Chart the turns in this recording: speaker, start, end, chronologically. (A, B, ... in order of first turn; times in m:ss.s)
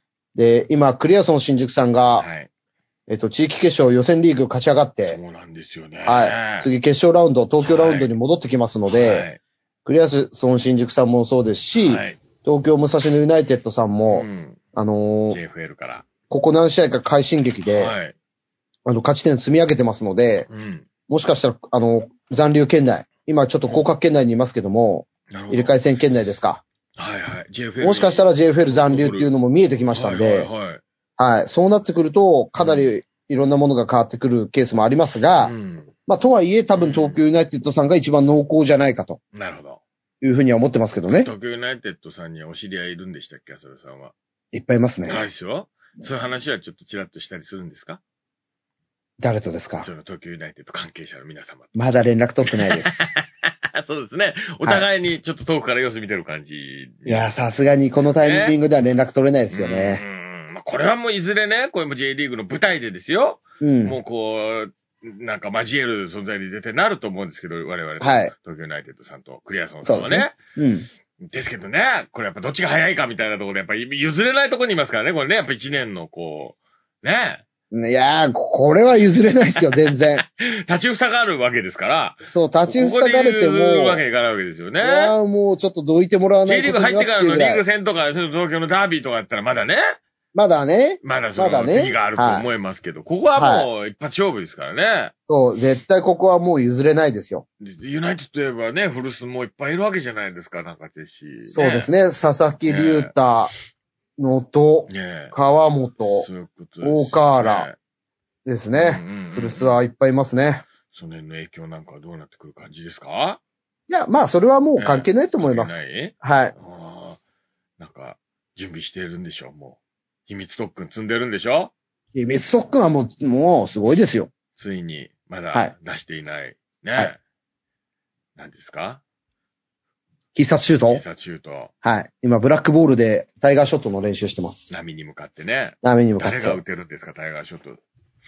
0:00.3-0:02.2 A
0:02.2-0:02.5 B
0:03.1-0:05.2 A
0:05.0-0:06.7 B
0:06.0-0:09.3 A
0:07.6-0:08.1 B
0:08.9-0:09.4 B
0:09.8-0:15.4 A
0:11.8-0:12.2 B
0:14.1-0:14.6 B
0:15.3-0:16.1 B
0:16.3-0:17.9 A
0:17.7-0:18.1 B
0:18.8-0:20.5 A
0:20.5-0:20.8 B
0:21.1-0:26.6 A
0:25.3-0:25.8 B
0:27.0-0:29.3 B
0:27.8-0:30.5 A
0:29.9-0:30.8 B
0:31.2-0:35.5 A
0:32.6-0:32.9 B
0:35.4-0:35.9 B
0:36.1-0:39.2 A
0:36.8-0:37.2 B
0:39.3-0:39.8 B
0:40.2-0:41.3 A
0:41.1-0:44.1 B
0:44.5-0:45.2 A
0:45.0-0:48.0 B
0:49.2-0:49.9 A
0:49.8-0:51.8 B
0:51.7-0:53.1 A
0:52.4-0:57.3 B
0:57.0-1:00.0 A
0:58.2-0:58.6 B
0:59.5-1:10.4 B
1:03.6-1:04.0 A
1:08.0-1:08.3 A
1:09.8-1:10.9 A
1:11.2-1:17.4 B
1:17.7-1:20.2 A
1:20.2-1:25.1 B
1:22.3-1:24.0 A
1:24.8-1:27.6 A
1:26.4-1:30.0 B
1:30.3-1:32.5 A
1:31.0-1:35.1 B
1:33.4-1:33.7 A
1:35.3-1:37.4 A
1:37.6-1:41.9 B
1:41.5-1:43.5 A
1:42.7-1:43.1 B
1:44.2-1:46.3 A
1:44.9-1:45.3 B
1:46.2-1:47.8 B
1:46.8-1:47.7 A
1:48.4-1:50.6 A
1:48.7-1:49.8 B
1:50.9-1:53.4 B
1:53.9-1:56.5 A
1:54.8-1:57.2 B
1:57.8-2:01.7 B
2:02.1-2:04.3 A
2:04.6-2:07.2 B
2:08.4-2:09.0 B
2:10.3-2:11.0 A
2:10.9-2:11.7 B
2:11.8-2:14.7 A
2:14.7-2:17.8 B
2:15.8-2:16.6 A